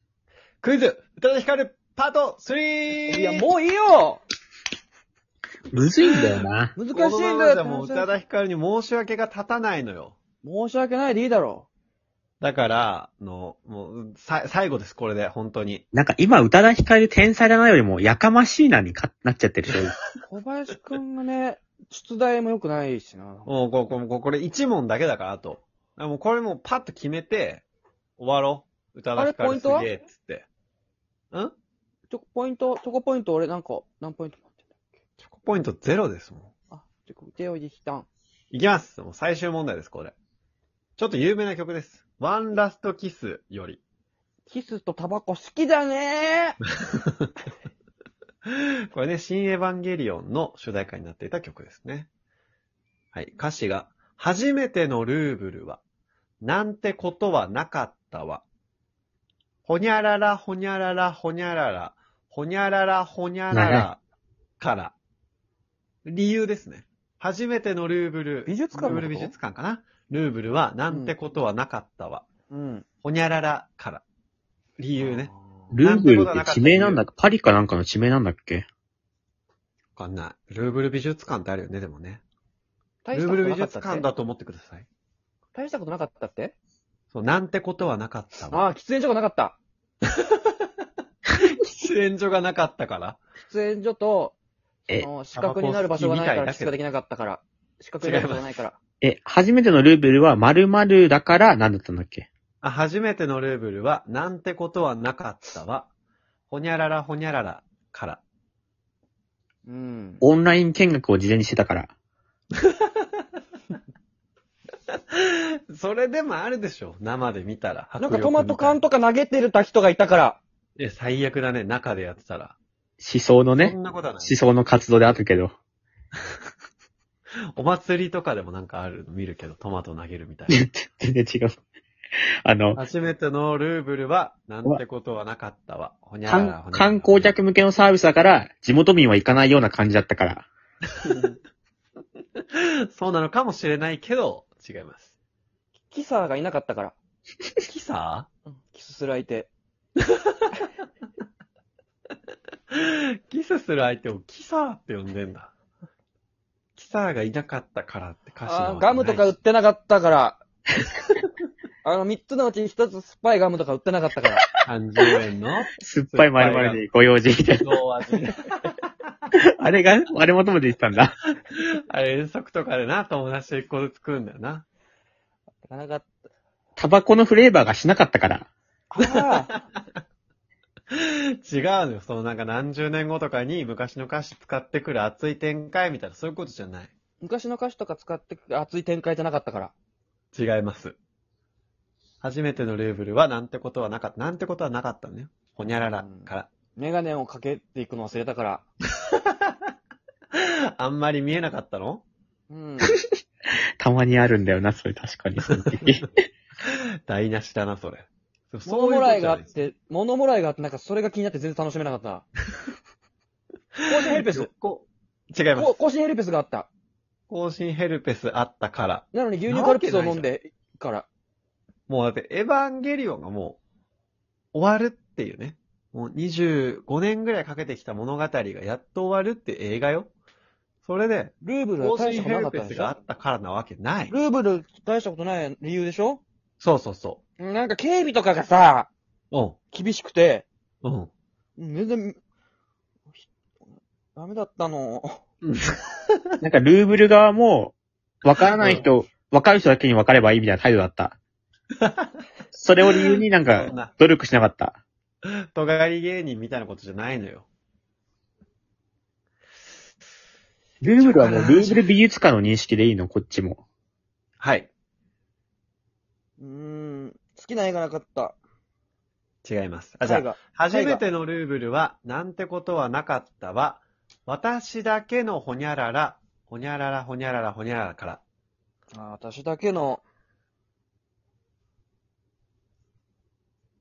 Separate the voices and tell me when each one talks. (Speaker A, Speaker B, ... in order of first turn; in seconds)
Speaker A: 0.6-3.5, 6.9-10.2, 12.4-15.8, 23.4-27.6, 28.2-30.4, 35.2-36.5, 38.5-40.1, 41.0-43.8, 48.9-52.1, 53.1-55.8, 56.4-58.4, 59.6-64.0, 64.6-64.9, 66.0-72.3, 73.0-74.0, 74.8-75.3, 75.8-77.0, 80.0-82.2, 83.1-84.8, 87.1-88.6, 91.5-93.2, 95.3-96.7, 98.0-98.6, 102.6-105.9, 106.5-108.2, 115.1-118.8, 120.8-122.5, 123.6-124.3, 127.5-130.6, 132.7-137.3, 142.9-145.1, 147.6-148.3, 152.7-155.5, 156.8-159.3, 164.6-166.8, 167.6-168.6, 171.6-174.7, 180.9-186.9, 190.3-191.0, 192.2-196.5, 200.3-202.0, 206.7-209.5, 214.0-215.8, 217.3-220.3, 221.9-223.6, 224.5-230.1, 230.8-234.2, 236.6-237.2, 239.3-239.6, 240.8-241.1, 245.4-246.2, 248.6-248.9, 251.8-252.1, 252.9-253.9, 255.2-257.4, 261.0-261.8, 264.4-264.7, 269.4-278.2
Speaker B: 3.1-4.2, 6.8-8.1, 10.4-11.7, 20.3-23.5, 29.1-29.9, 32.1-34.7, 36.7-38.1, 44.5-46.5, 68.5-69.3, 70.9-71.1, 72.5-72.8, 75.0-75.7, 83.0-84.0, 85.5-86.5, 88.5-89.6, 93.4-94.3, 94.9-98.8, 109.7-110.2, 118.0-120.4, 141.1-141.3, 145.9-146.9, 148.5-149.5, 158.4-160.4, 161.8-164.4, 175.6-176.2, 178.9-179.5, 187.2-189.7, 195.8-198.6, 202.5-202.9, 208.6-212.2, 213.9-214.5, 215.5-216.7, 219.1-221.1, 231.4-232.9, 234.1-236.2, 237.4-238.9, 239.7-240.4, 241.6-242.2, 244.1-245.2, 266.4-268.4, 270.0-271.0, 278.9-280.0
Speaker C: 5.7-6.7, 15.9-19.9, 63.5-63.9, 75.7-78.7, 99.0-102.3, 110.2-111.9, 123.0-125.5, 130.5-131.6, 132.4-132.8, 136.3-140.5, 165.8-167.8, 169.3-171.2, 176.8-178.5, 203.8-206.2, 246.4-251.2, 252.5-254.8, 260.8-263.6